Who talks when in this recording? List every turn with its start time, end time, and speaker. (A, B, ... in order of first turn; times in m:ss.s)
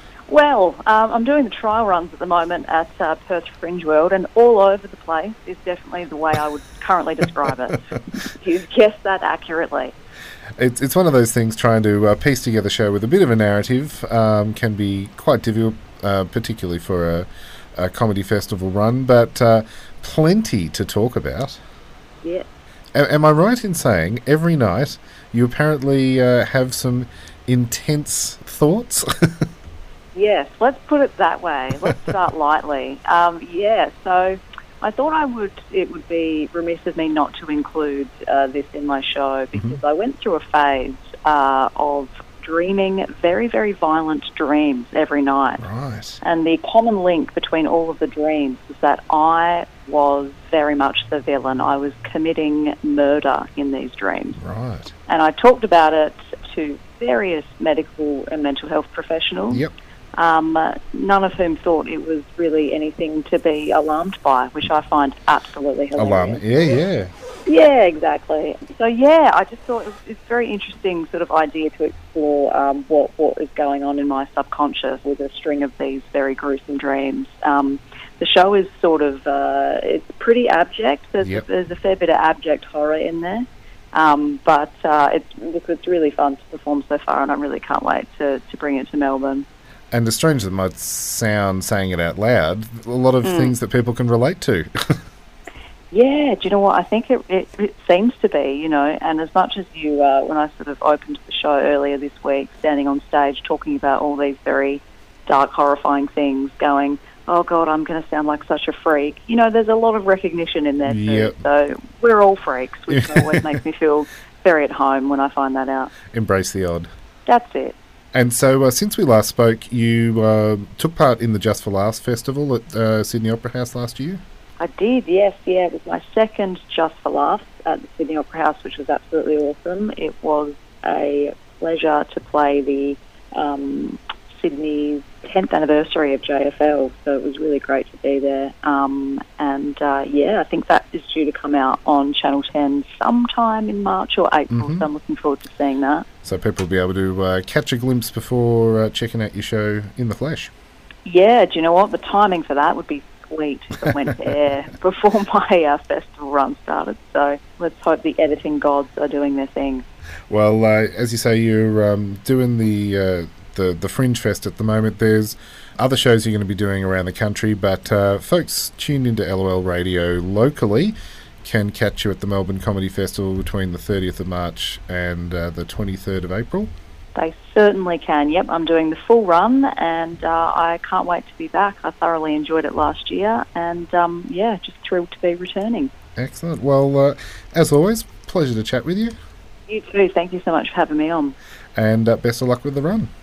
0:00.3-0:09.9 A
0:10.6-0:21.6 B
0:22.9-0:29.1 B
0:30.1-0:45.6 A
0:31.8-0:32.1 B
0:39.5-0:39.8 B
0:45.6-0:46.2 B
0:46.2-0:54.4 A
0:54.4-0:54.9 B
0:55.1-0:59.6 A
1:00.1-1:06.4 A
1:06.0-1:07.1 B
1:07.4-1:29.4 A
1:29.9-1:34.7 B
1:33.2-1:33.5 A
1:35.9-1:55.9 A
1:50.8-1:51.4 B
1:52.9-1:53.4 B
1:56.1-1:56.9 B
1:57.3-1:57.7 A
1:58.1-2:04.2 B
2:04.6-2:26.0 A
2:24.5-2:24.9 B
2:26.2-2:30.5 B
2:31.0-2:39.8 A
2:40.3-2:56.7 B
2:57.2-3:05.9 A
3:06.2-3:09.1 B
3:09.7-3:11.3 A
3:11.8-3:13.1 B